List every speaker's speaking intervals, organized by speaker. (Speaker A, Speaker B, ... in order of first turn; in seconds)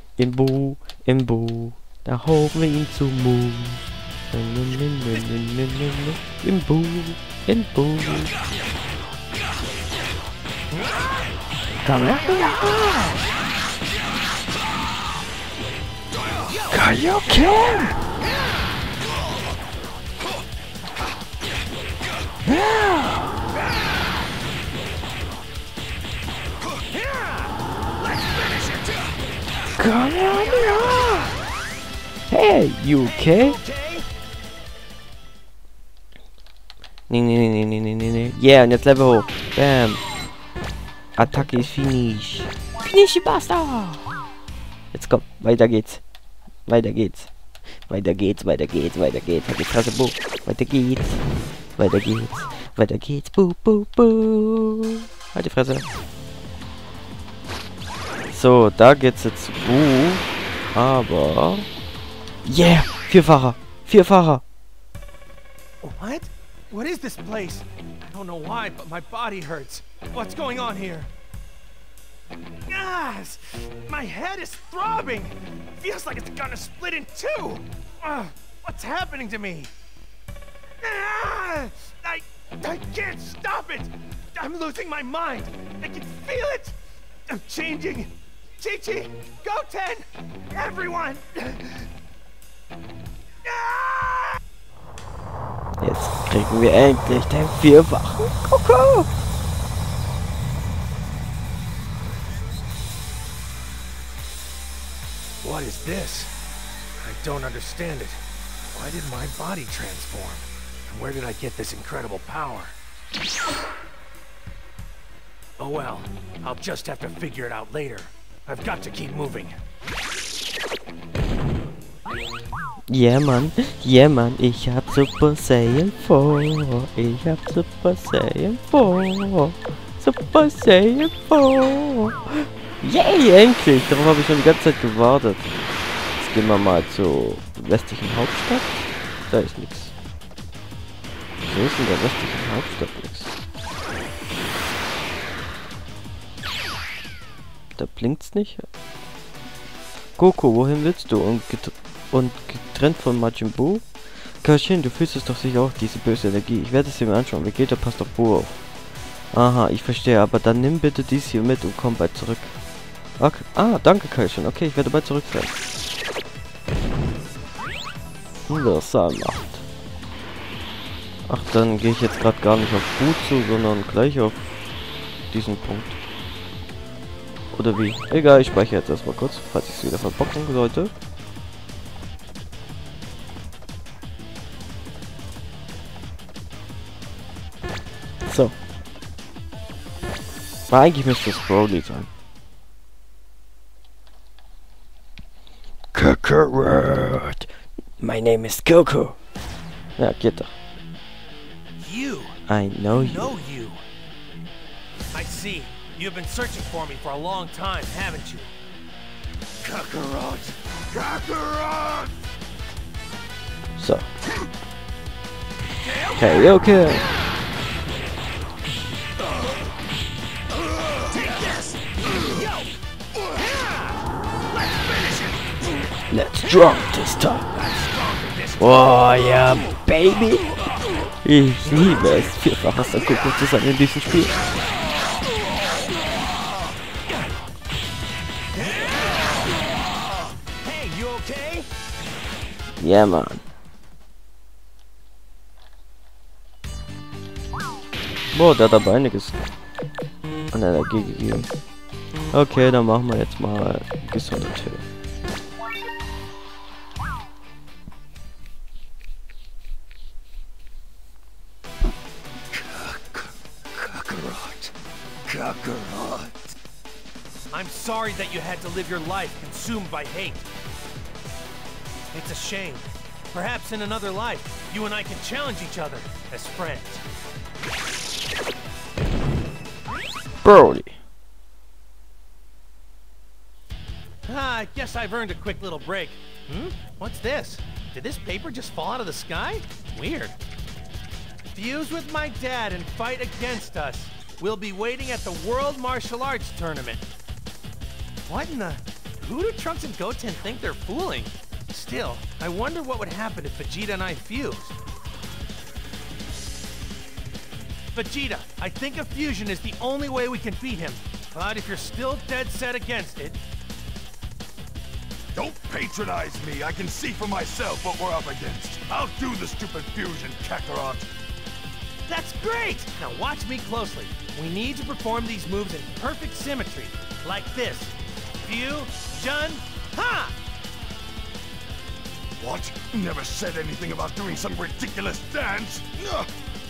Speaker A: 0.2-8.3, 11.8-13.2, 16.7-18.0, 22.4-23.3, 29.8-31.3, 32.3-33.6, 37.1-40.0, 41.2-44.0, 44.9-46.0, 46.6-47.3, 47.8-51.2, 51.8-55.9, 58.3-61.7, 62.4-64.4, 95.8-99.1, 122.9-135.5, 136.2-139.9, 141.4-143.3, 147.8-148.7, 150.2-153.9, 154.4-158.6, 159.3-162.5, 163.2-165.6, 168.5-169.7, 171.3-174.6, 175.3-176.0, 177.5-180.9, 188.2-188.6, 190.7-192.1, 195.9-197.5, 198.0-199.2, 200.0-200.5, 202.5-203.3, 213.8-214.1, 216.2-217.0, 226.1-227.5, 228.6-230.4, 231.2-234.4, 242.8-243.4, 248.3-249.4, 250.5-251.5, 252.3-254.8, 280.4-281.0
Speaker B: 10.7-11.3, 17.3-17.6, 18.2-18.6, 23.6-24.0, 26.6-29.2, 30.2-31.2, 33.0-34.0, 65.8-71.1, 72.7-79.7, 80.8-86.8, 87.3-91.9, 93.4-94.4, 105.4-106.3, 107.0-108.2, 108.7-112.7, 115.6-119.6, 201.8-202.4, 202.9-203.8, 205.1-208.5, 209.6-212.1, 215.8-216.6, 221.0-224.0, 224.5-225.4, 227.5-229.6, 231.7-232.0, 238.5-239.5, 240.6-241.7, 262.5-264.7, 265.3-266.5, 267.5-270.4, 272.1-277.0, 284.3-290.4, 291.5-297.1, 298.3-304.8, 307.9-313.4, 322.1-330.3
Speaker C: 315.3-321.1, 332.4-336.3